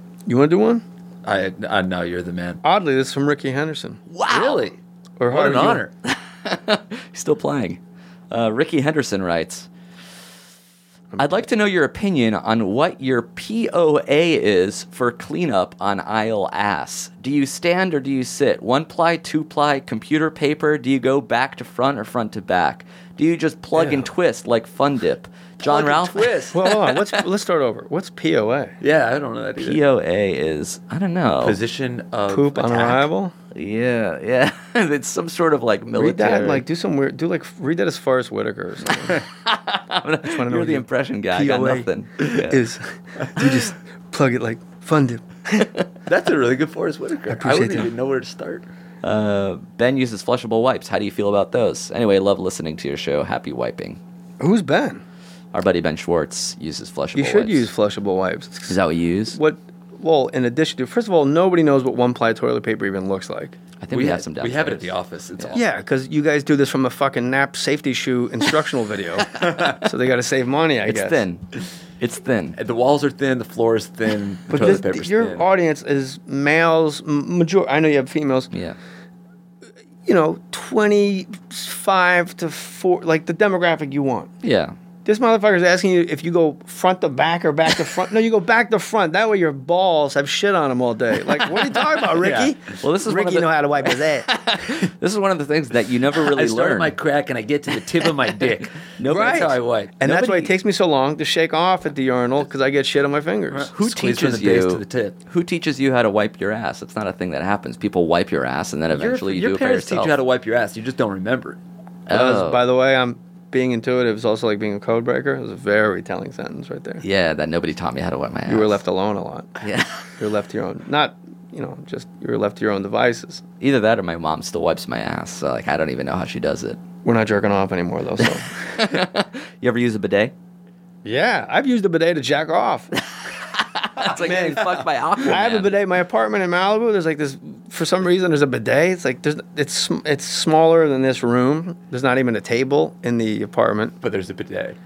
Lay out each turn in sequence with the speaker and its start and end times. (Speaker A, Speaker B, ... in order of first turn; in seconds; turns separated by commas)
Speaker A: 0.3-0.8, Speaker B: 1.2-2.6, Speaker A: 2.6-4.0, Speaker C: 4.1-4.7, Speaker B: 4.3-4.8, Speaker A: 5.2-5.8, Speaker B: 5.3-5.9, Speaker C: 6.1-7.8, Speaker C: 8.3-9.7, Speaker A: 11.1-11.4, Speaker C: 11.2-27.1, Speaker B: 23.8-24.1, Speaker B: 25.6-26.6, Speaker A: 26.5-28.8, Speaker B: 28.8-29.8, Speaker C: 29.6-31.6, Speaker B: 31.4-33.0, Speaker A: 32.3-33.3, Speaker C: 33.5-36.6, Speaker A: 36.0-39.2, Speaker C: 39.5-42.6, Speaker A: 40.2-45.7, Speaker B: 46.1-48.7, Speaker A: 47.3-47.9, Speaker C: 49.0-54.0, Speaker A: 54.4-55.0, Speaker C: 55.5-57.7, Speaker A: 57.1-58.8, Speaker C: 58.7-59.4, Speaker A: 59.3-63.6, Speaker C: 63.8-65.6, Speaker B: 63.9-65.6, Speaker A: 65.5-71.2, Speaker B: 69.4-69.7, Speaker C: 70.8-71.5, Speaker C: 72.0-72.6, Speaker B: 72.6-75.5, Speaker A: 74.5-78.5, Speaker C: 78.5-78.8, Speaker A: 80.1-84.3, Speaker C: 84.4-84.8, Speaker A: 85.0-94.3, Speaker B: 92.2-92.5, Speaker C: 92.8-97.0, Speaker B: 96.2-99.9, Speaker C: 99.0-100.5, Speaker A: 99.1-103.7, Speaker B: 103.5-105.2, Speaker C: 103.7-110.1, Speaker B: 108.9-111.6, Speaker C: 112.1-112.6, Speaker A: 112.1-117.0, Speaker C: 117.0-118.8, Speaker A: 118.5-119.6, Speaker C: 119.6-120.1, Speaker A: 120.2-123.4, Speaker C: 123.6-126.8, Speaker A: 127.0-128.5, Speaker C: 128.6-130.3, Speaker A: 131.1-132.9, Speaker C: 133.8-135.8, Speaker A: 134.0-144.0, Speaker B: 144.0-144.8